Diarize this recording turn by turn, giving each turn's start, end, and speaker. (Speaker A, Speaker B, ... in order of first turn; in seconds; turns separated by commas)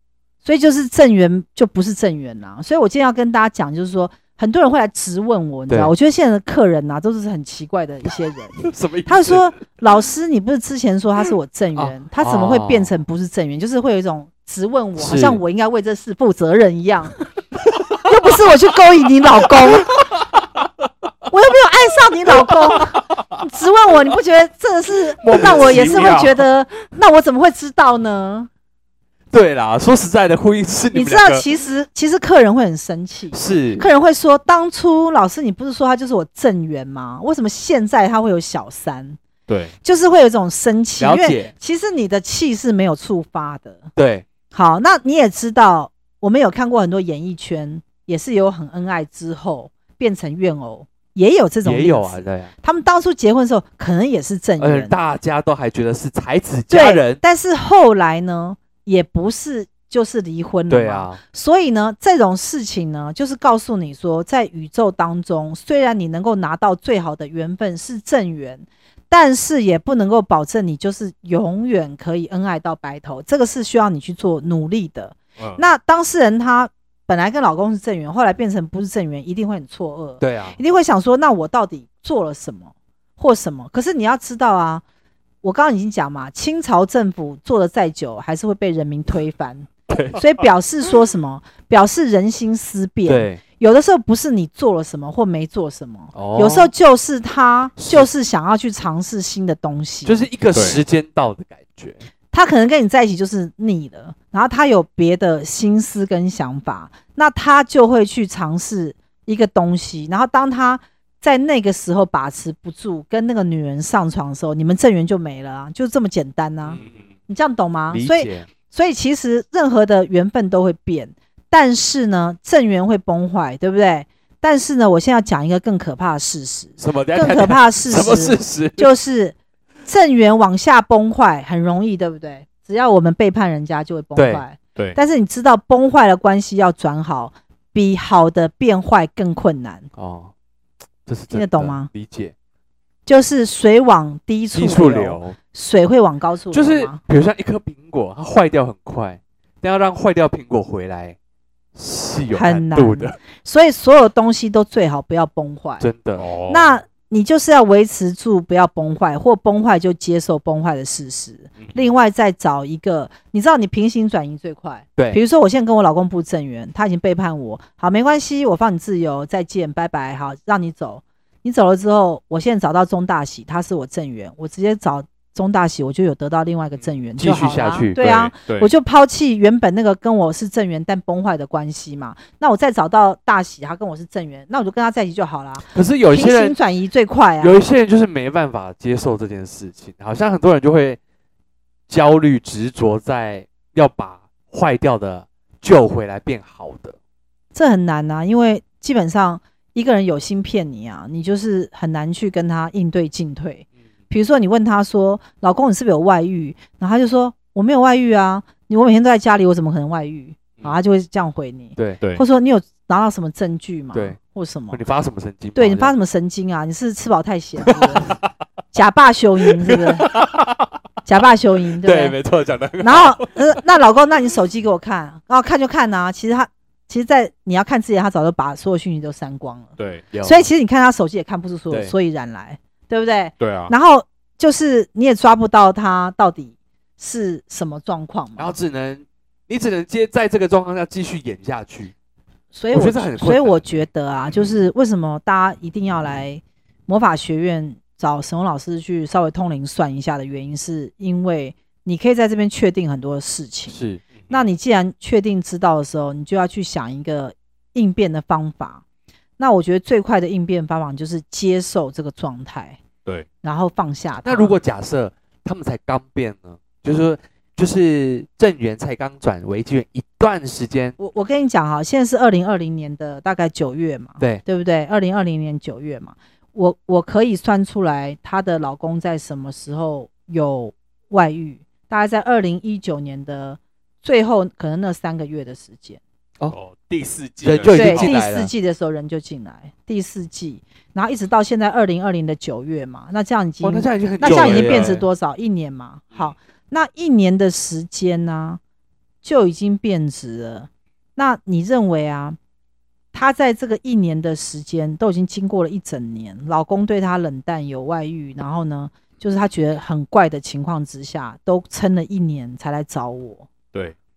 Speaker A: 0.4-17.2, Speaker B: 8.6-9.5, Speaker B: 11.8-12.9, Speaker B: 15.0-15.4, Speaker A: 18.0-19.9, Speaker B: 19.5-20.6, Speaker A: 21.3-28.5, Speaker B: 22.4-23.0, Speaker B: 25.2-26.4, Speaker B: 29.3-31.4, Speaker A: 30.9-39.2, Speaker B: 33.3-33.9, Speaker C: 39.5-39.7, Speaker A: 39.8-43.9, Speaker B: 41.0-41.5, Speaker B: 44.0-44.3, Speaker A: 44.5-55.0, Speaker B: 51.6-52.5, Speaker B: 54.6-57.2, Speaker A: 56.7-84.8, Speaker B: 60.7-61.2, Speaker B: 80.2-80.6, Speaker A: 85.4-100.3, Speaker B: 89.9-90.2, Speaker B: 93.1-93.4, Speaker B: 96.1-96.7, Speaker B: 97.8-98.1, Speaker B: 100.1-102.1, Speaker C: 100.5-100.8, Speaker A: 102.3-139.9, Speaker C: 116.7-117.1, Speaker B: 117.9-118.5, Speaker B: 126.8-128.9, Speaker B: 134.2-134.4, Speaker B: 140.0-140.3, Speaker B: 141.1-142.3, Speaker A: 141.3-141.9, Speaker A: 143.1-147.0, Speaker B: 144.5-145.4, Speaker B: 146.5-151.2, Speaker B: 151.8-153.2, Speaker A: 152.3-155.9, Speaker B: 155.8-156.3, Speaker C: 156.2-156.8, Speaker A: 156.5-187.6, Speaker B: 177.2-178.3, Speaker C: 178.0-178.7, Speaker B: 185.7-186.6, Speaker B: 187.4-191.0, Speaker B: 191.9-197.0, Speaker A: 197.5-214.8, Speaker B: 211.8-212.0, Speaker B: 214.7-215.9, Speaker A: 215.6-218.2, Speaker B: 217.6-218.3, Speaker A: 218.7-220.1, Speaker B: 219.5-220.8, Speaker A: 221.1-222.2, Speaker B: 221.8-223.3, Speaker A: 222.8-229.7, Speaker C: 229.8-230.1, Speaker B: 230.1-230.5, Speaker A: 230.2-238.6, Speaker C: 233.4-233.7, Speaker B: 238.4-241.9, Speaker A: 242.5-253.8, Speaker B: 242.7-243.6, Speaker B: 253.7-254.0, Speaker A: 254.3-258.8, Speaker A: 259.4-262.8, Speaker A: 263.4-264.6, Speaker B: 264.2-270.9, Speaker A: 271.0-286.0, Speaker C: 286.5-288.2, Speaker B: 287.4-288.5, Speaker A: 287.7-298.6, Speaker B: 293.6-295.1, Speaker C: 294.2-295.0, Speaker A: 299.2-302.4, Speaker A: 303.1-313.5